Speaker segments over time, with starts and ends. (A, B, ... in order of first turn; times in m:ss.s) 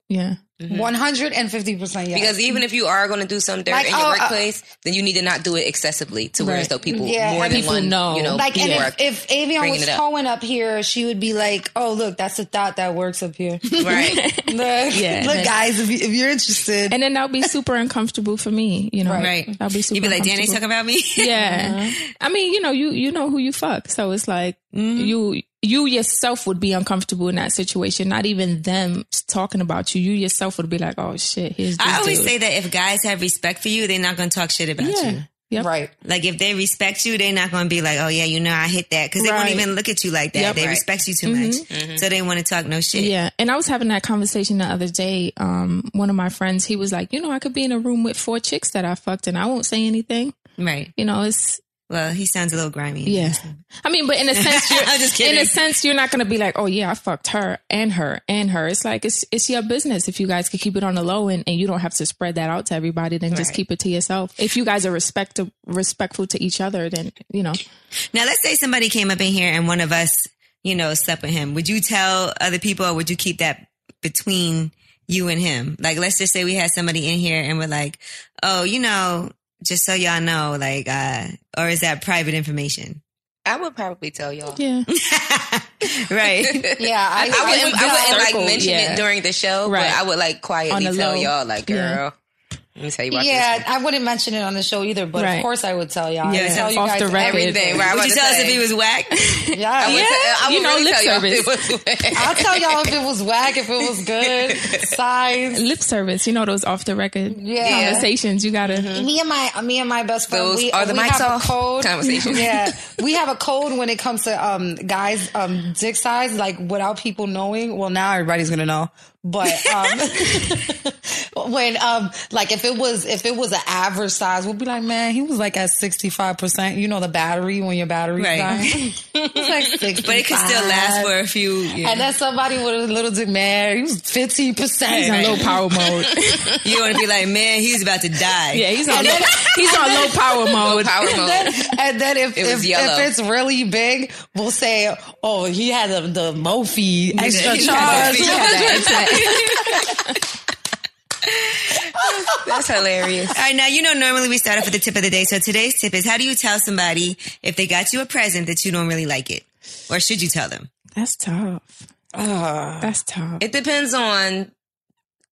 0:00.1-0:00.4 A
0:00.6-0:00.9 B
0:00.7-0:02.4 C
0:02.1-0:09.0 B
0:03.7-0:04.4 C
0:06.4-0:06.7 A
0:06.8-0:17.0 C
0:07.4-0:08.8 A
0:09.6-0:10.0 B
0:13.7-0:15.5 A
0:13.8-0:14.3 B
0:16.9-0:20.6 A
0:19.0-0:19.4 C
0:19.1-0:21.7 D
0:21.2-0:32.3 A
0:21.4-0:21.9 C
0:24.7-0:25.2 D
0:31.8-0:35.2 D
0:34.8-0:35.7 A
0:35.6-0:35.9 C
0:36.0-0:43.1 D
0:39.2-0:39.7 A
0:40.3-0:40.6 A
0:40.4-0:40.8 B
0:41.2-0:41.6 A
0:41.7-0:42.0 B
0:43.0-0:50.3 A
0:50.6-0:50.9 D
0:51.0-0:51.6 A
0:51.9-0:53.6 D
0:53.0-1:07.6 A
0:54.3-0:55.6 D
1:03.3-1:03.6 B
1:08.1-1:23.0 D
1:23.4-1:24.6 B
1:24.6-1:24.9 A
1:24.9-1:26.7 D
1:26.4-1:32.1 B
1:26.8-1:28.2 C
1:27.3-1:29.1 A
1:29.6-1:30.0 A
1:30.7-1:32.0 A
1:32.8-1:33.6 B
1:33.1-1:37.9 C
1:35.1-1:35.5 A
1:36.2-1:37.7 A
1:36.3-1:36.7 D
1:37.1-1:38.7 B
1:37.7-1:39.2 D
1:39.2-1:41.7 A
1:39.5-1:40.1 C
1:39.8-1:42.9 B
1:42.1-1:45.6 C
1:44.2-1:44.9 B
1:45.5-1:48.9 A
1:47.3-1:48.1 C
1:47.6-1:48.1 B
1:48.6-1:49.1 B
1:48.9-2:11.1 C
1:50.3-1:52.4 B
1:52.1-1:52.4 A
2:08.2-2:08.5 D
2:08.5-2:08.8 A
2:09.1-2:10.0 B
2:10.0-2:12.1 D
2:11.8-2:15.6 C
2:14.9-2:16.6 A
2:16.0-2:16.6 B
2:16.6-2:19.0 D
2:18.5-2:21.7 A
2:18.9-2:20.1 C
2:20.5-2:21.5 B
2:21.0-2:29.1 C
2:22.4-2:23.1 B
2:27.1-2:29.9 A
2:27.2-2:28.4 D
2:27.6-2:29.7 B
2:32.2-2:33.3 B
2:33.3-2:40.7 D
2:41.0-2:41.8 A
2:42.1-2:42.9 C
2:42.8-2:43.4 A
2:43.4-2:44.5 B